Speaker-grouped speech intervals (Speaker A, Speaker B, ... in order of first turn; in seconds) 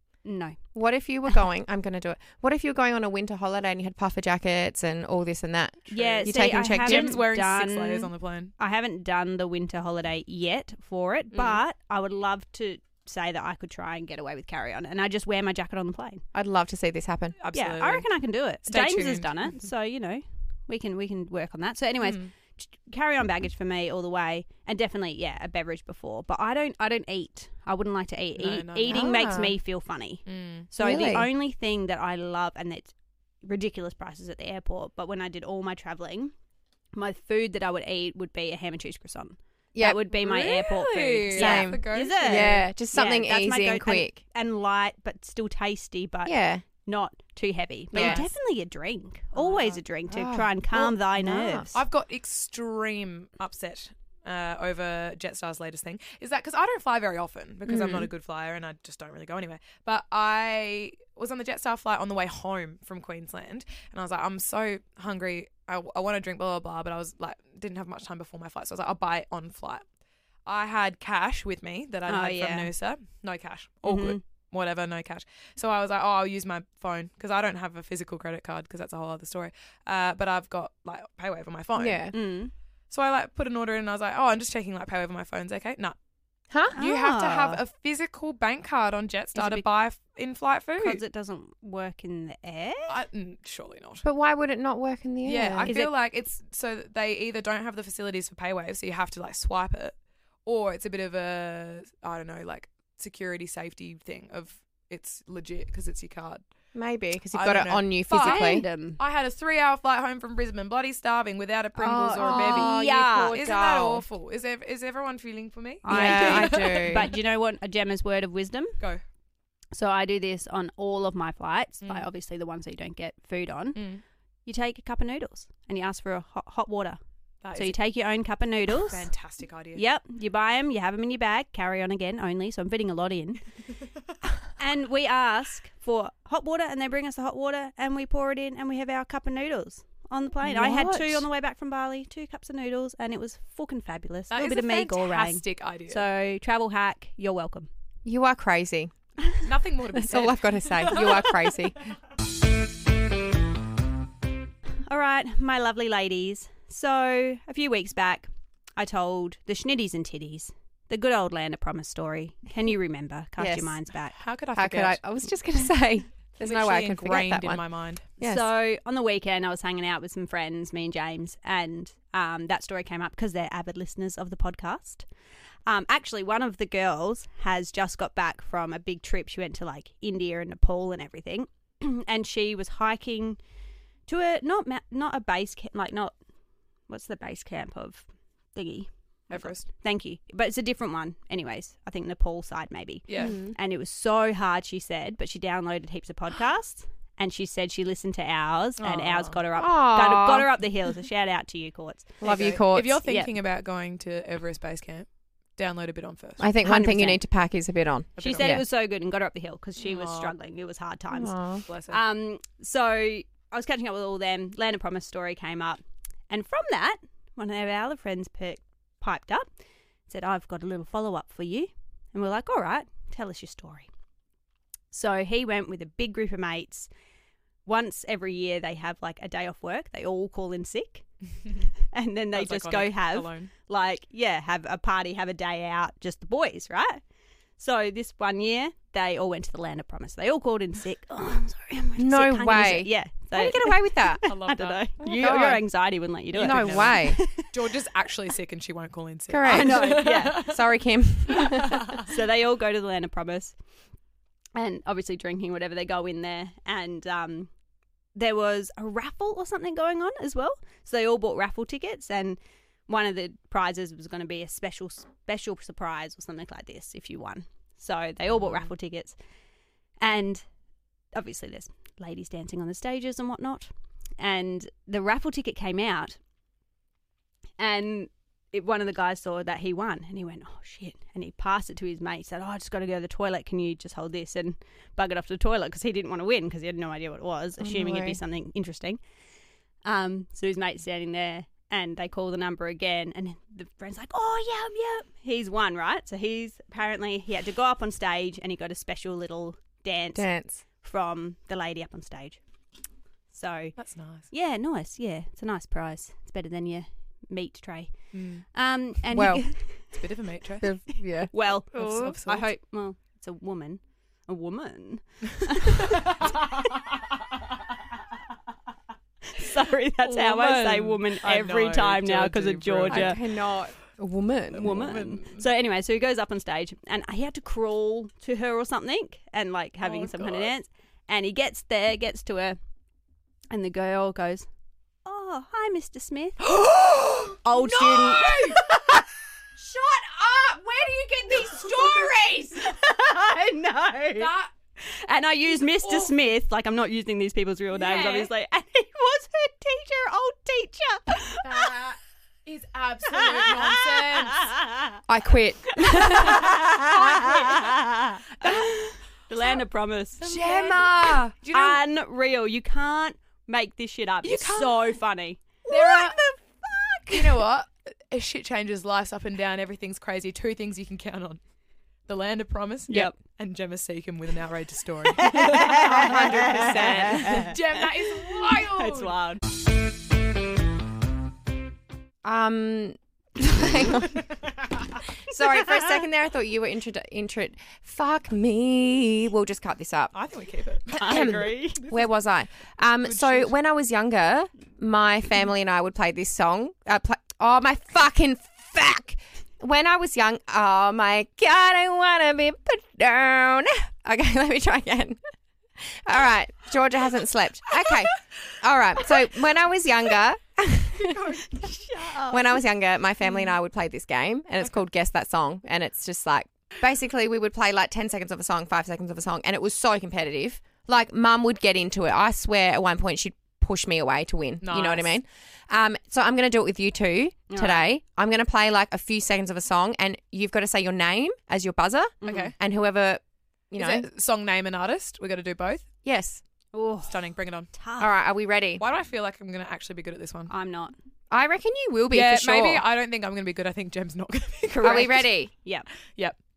Speaker A: 0.2-0.6, 5.9-16.2, 17.5-32.9, 33.4-36.3, 36.9-51.7, 72.1-72.7, 73.8-74.2, 82.1-82.5, 86.7-87.6, 89.3-89.6, 90.8-93.0, 95.7-95.9, 108.1-109.0, 111.8-114.0, 115.8-118.8, 119.7-123.8, 124.5-127.0, 127.5-129.1, 129.8-133.4, 134.6-147.7, 154.9-164.1, 168.2-175.1, 175.7-183.4, 184.1-186.1, 186.9-203.3, 206.6-207.2, 208.2-219.5, 220.1-223.9, 224.9-226.9, 227.6-231.1, 231.9-237.0, 237.6-247.5, 249.4-250.5, 252.0-253.6, 254.5-257.5, 258.1-269.2, 270.0-270.4, 271.1-276.2, 277.6-289.0, 289.8-302.4, 303.3-303.8, 304.3-310.0, 311.3-316.6, 319.3-323.2, 324.6-332.6, 333.5-334.5, 335.0-336.5, 337.4-339.0, 341.3-351.7, 353.0-355.0, 356.0-360.3, 361.5-367.3, 372.9-373.2, 375.1-379.4, 391.0-391.8, 411.4-412.5, 427.5-427.9, 432.2-432.5, 436.7-437.2, 437.7-438.1, 440.5-440.9, 444.8-445.9
Speaker B: 0.7-7.2, 11.3-11.6, 16.3-17.4, 28.9-29.5, 30.8-31.3, 39.7-40.0, 41.3-44.2, 46.2-46.6, 47.9-48.3, 50.1-51.7, 57.7-58.1, 81.8-82.1, 94.0-95.7, 106.7-108.6, 111.8-114.0, 115.9-117.1, 140.4-141.2, 148.0-148.9, 149.9-151.7, 163.4-163.8, 164.6-167.6, 168.2-168.4, 193.2-193.6, 199.5-200.5, 202.2-203.0, 206.4-208.6, 211.1-211.6, 242.0-244.2, 245.0-245.6, 246.3-247.2, 249.3-252.0, 287.6-288.2, 300.1-300.6, 309.1-309.5, 310.6-311.3, 322.9-324.7, 340.1-340.5, 355.1-356.5, 360.2-361.3, 382.2-384.3, 385.1-390.1, 390.9-405.2, 405.8-411.5, 412.2-434.1, 436.0-436.4, 438.0-438.8, 441.3-442.8, 444.8-445.5
Speaker C: 5.9-8.5, 17.4-18.1, 18.6-19.4, 22.0-22.3, 28.4-29.1, 30.2-30.7, 40.1-42.6, 47.9-48.3, 49.3-49.8, 51.7-69.8, 70.5-82.1, 82.9-86.0, 86.7-91.0, 92.9-94.0, 95.2-106.4, 107.3-117.1, 121.8-122.1, 123.8-124.0, 127.4-127.8, 128.8-129.8, 144.3-146.0, 149.4-151.7, 164.1-165.0, 166.4-168.1, 189.3-189.7, 193.1-193.3, 198.8-199.4, 202.2-206.4, 208.2-208.5, 209.8-210.3, 211.7-212.0, 232.3-233.5, 244.2-244.9, 246.3-250.6, 251.3-252.0, 303.8-304.3, 308.1-308.4, 309.8-311.0, 311.7-312.5, 320.0-323.3, 324.5-325.4, 329.8-330.5, 336.4-338.8, 339.6-342.7, 344.1-344.5, 345.8-346.1, 347.7-348.3, 351.4-354.5, 358.4-358.7, 360.2-361.8, 364.2-364.9, 365.7-366.2, 367.1-371.4, 372.1-379.2, 390.1-392.1, 393.0-393.5, 411.0-411.6, 424.6-425.1, 432.2-432.5, 433.7-435.9, 437.1-437.7, 438.8-440.5, 442.1-445.3